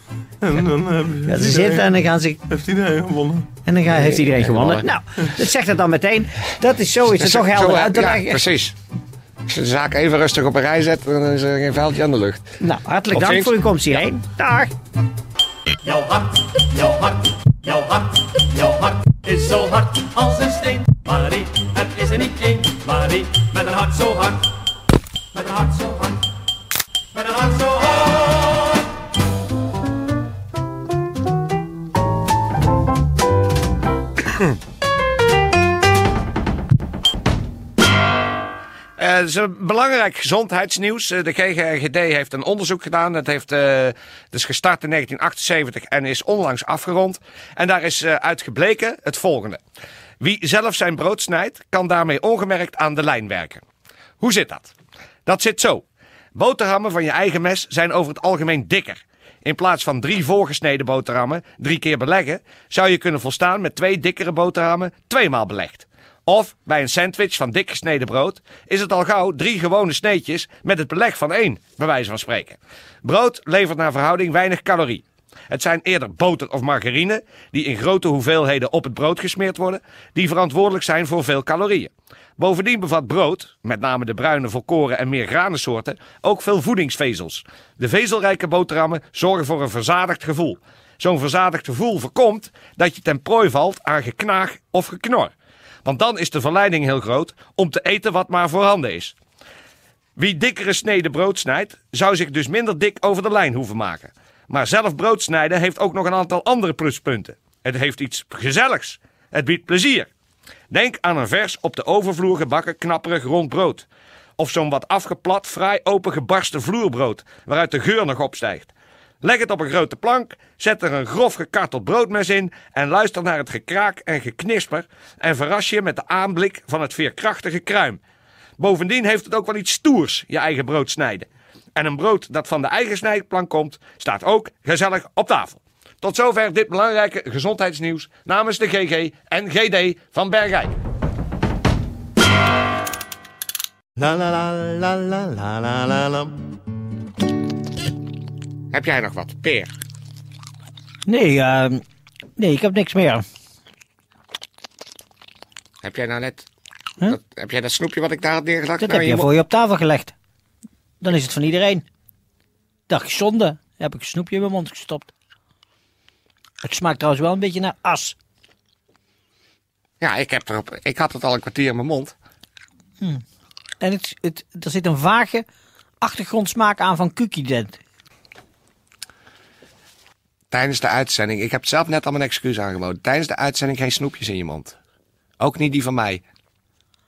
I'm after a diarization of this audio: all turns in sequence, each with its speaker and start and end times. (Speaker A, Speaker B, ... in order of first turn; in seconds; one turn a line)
Speaker A: 0.4-1.9
Speaker B: 1.3-2.4
Speaker A: 2.5-3.5
Speaker B: 3.6-8.4
Speaker C: 3.9-4.8
Speaker C: 7.2-8.7
Speaker C: 9.5-12.4
Speaker B: 12.6-14.7
Speaker C: 13.1-13.5
Speaker D: 15.8-24.6
Speaker D: 25.3-26.2
Speaker D: 27.1-28.8
Speaker C: 39.0-49.6
Speaker C: 50.2-53.6
Speaker C: 54.2-54.7
Speaker C: 55.2-95.3
Speaker C: 95.8-99.2
Speaker C: 100.2-110.1
Speaker C: 110.7-113.9
Speaker C: 114.4-128.0
Speaker C: 128.6-140.7
Speaker A: 144.0-146.2
Speaker C: 148.7-149.8
Speaker B: 151.1-151.8
Speaker B: 152.4-153.2
Speaker C: 155.8-156.5
Speaker C: 157.0-159.3
Speaker B: 158.8-160.1
Speaker B: 161.0-161.8
Speaker B: 162.9-165.1
Speaker B: 166.6-168.2
Speaker C: 170.0-172.1
Speaker B: 173.8-175.4
Speaker B: 176.0-177.8
Speaker C: 180.5-184.8
Speaker C: 185.4-186.2